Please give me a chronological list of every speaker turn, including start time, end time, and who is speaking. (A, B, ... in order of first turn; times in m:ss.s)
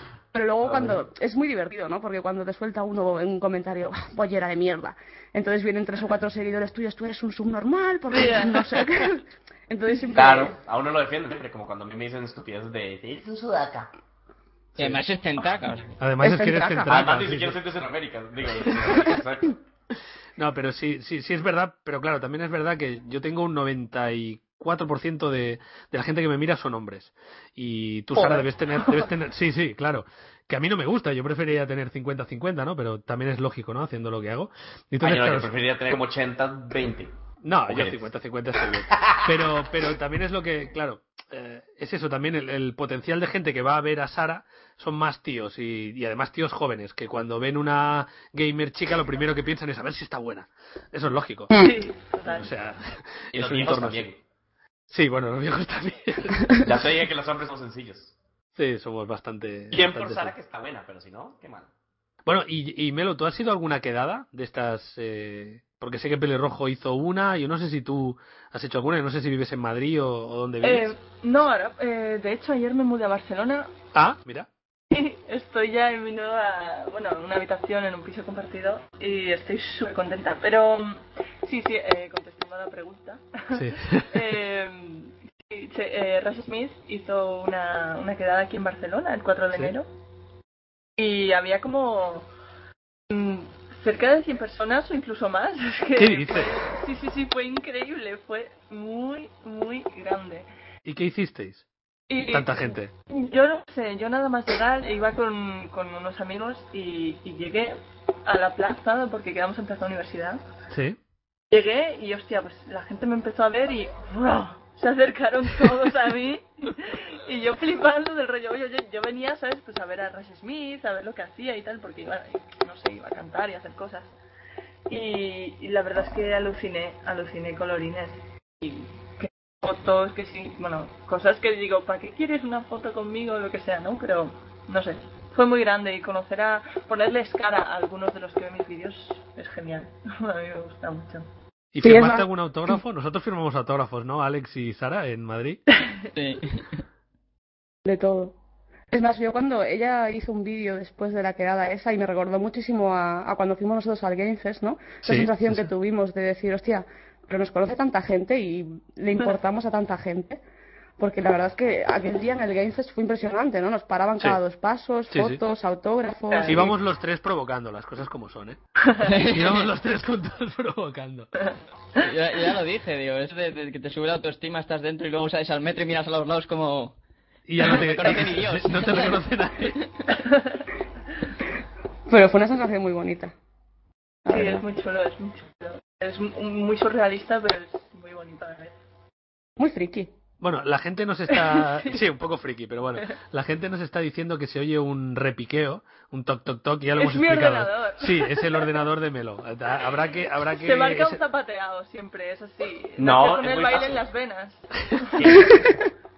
0:00.3-0:10.6 A
0:00.6-0:00.9 B
0:08.1-0:08.9 C
0:10.1-0:13.9 B
0:14.8-0:15.9 D
0:16.0-0:17.6 E
0:16.2-0:16.9 A
0:16.9-0:19.6 B
0:20.4-0:36.0 E
0:28.2-0:28.4 B
0:35.0-0:37.1 B
0:37.4-0:51.5 E
0:37.7-0:38.0 B
0:51.6-0:52.5 C
0:52.3-0:54.1 E
0:53.3-0:54.2 B
0:54.9-0:56.6 E
0:56.6-0:58.1 B
0:58.6-1:00.3 E
0:59.7-1:01.7 B
1:02.2-1:10.9 E
1:10.6-1:13.7 C
1:13.9-1:14.5 E
1:14.9-1:29.9 C
1:23.5-1:24.1 E
1:31.0-1:32.3 C
1:33.1-1:40.4 C
1:36.0-1:36.5 E
1:40.8-1:41.6 E
1:42.1-1:50.4 C
1:42.3-1:42.9 E
1:50.7-1:51.0 E
1:51.5-2:04.1 C
2:04.9-2:21.3 C
2:21.7-2:25.6 E
2:21.8-2:22.8 A
2:26.1-2:26.8 D
2:27.8-2:28.3 A
2:28.9-2:40.4 A
2:35.0-2:35.6 E
2:41.0-2:46.7 A
2:45.1-2:45.4 E
2:46.3-2:46.6 C
2:46.5-2:48.6 E
2:49.0-2:49.6 D
2:49.3-2:51.3 E
2:52.0-2:56.9 D
2:57.5-2:59.8 E
2:57.6-2:59.2 D
3:00.1-3:00.6 C
3:02.1-3:03.3 A
3:04.2-3:04.6 A
3:04.3-3:08.8 C
3:09.6-3:10.1 A
3:10.4-3:21.2 E
3:11.6-3:12.0 C
3:17.0-3:18.7 C
3:20.6-3:25.1 C
3:23.0-3:24.0 B
3:25.1-3:25.7 B
3:25.3-3:25.7 A